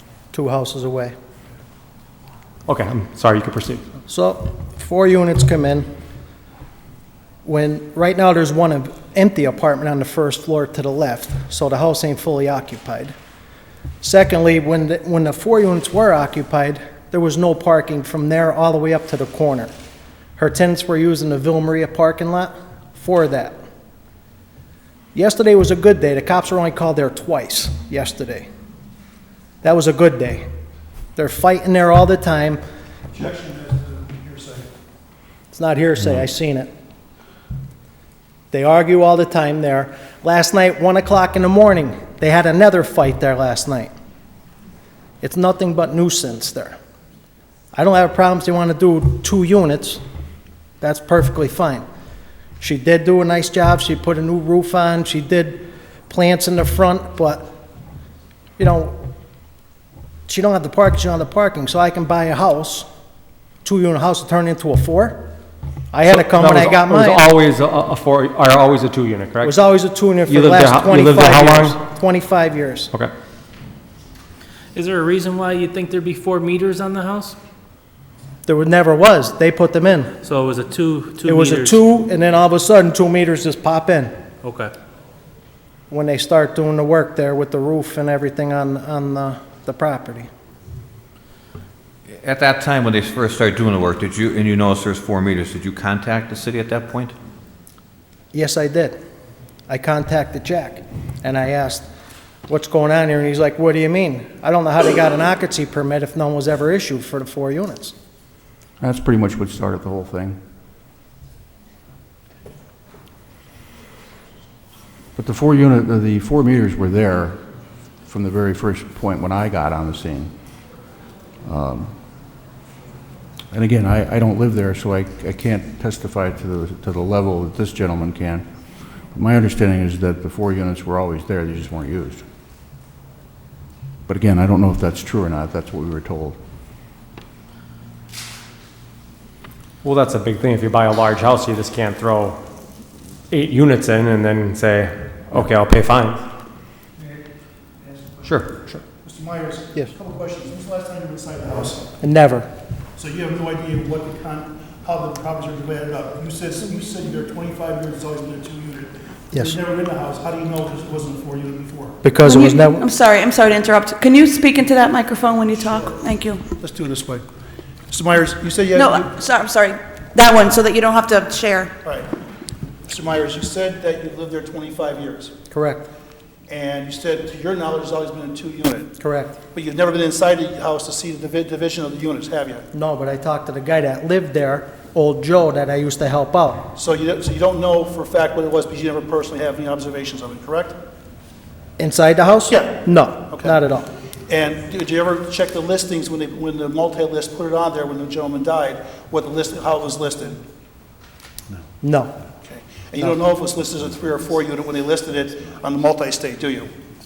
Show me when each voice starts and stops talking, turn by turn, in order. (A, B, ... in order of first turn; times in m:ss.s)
0:00.3-0:01.1 A
0:02.6-0:03.8 B
0:04.1-0:05.9 A
0:07.4-0:13.1 A
0:14.0-0:19.7 A
0:20.4-0:23.6 A
0:25.1-0:28.5 A
0:29.6-0:30.4 A
0:31.2-0:32.6 A
0:33.1-0:34.7 C
0:35.5-0:36.7 A
0:38.5-0:43.9 A
0:45.2-0:46.8 A
0:47.7-0:50.0 A
0:50.8-0:51.8 A
0:52.6-0:57.5 A
0:58.6-0:59.0 A
1:00.3-1:02.8 A
1:03.6-1:05.2 A
1:05.9-1:07.3 A
1:06.1-1:09.6 B
1:09.4-1:12.9 A
1:10.2-1:11.8 B
1:14.7-1:17.4 D
1:18.4-1:20.1 A
1:20.2-1:21.8 D
1:21.2-1:24.1 A
1:24.4-1:24.7 D
1:25.9-1:30.3 A
1:32.1-1:37.1 E
1:38.3-1:39.0 A
1:39.7-1:41.8 A
1:42.5-1:47.9 A
1:48.8-1:50.4 F
1:55.2-1:57.4 F
1:58.0-2:00.3 F
2:01.4-2:01.9 F
2:03.5-2:08.5 F
2:09.1-2:12.2 F
2:14.1-2:16.4 F
2:19.8-2:22.4 B
2:23.3-2:26.2 B
2:27.0-2:27.2 C
2:27.8-2:28.3 C
2:28.2-2:28.6 E
2:28.9-2:31.9 C
2:32.0-2:32.5 A
2:33.0-2:42.0 C
2:42.0-2:42.8 A
2:42.2-2:46.4 G
2:45.5-2:46.0 C
2:46.5-2:47.2 C
2:47.9-2:49.1 C
2:48.7-2:51.7 G
2:52.9-2:55.3 C
2:55.5-2:55.8 A
2:56.5-2:58.9 C
2:59.0-2:59.4 A
2:59.5-3:02.6 C
3:02.7-3:06.7 A
3:06.8-3:10.7 C
3:11.8-3:13.9 A
3:12.5-3:12.8 C
3:13.3-3:13.6 C
3:14.3-3:20.4 C
3:21.8-3:22.1 A
3:22.4-3:26.7 C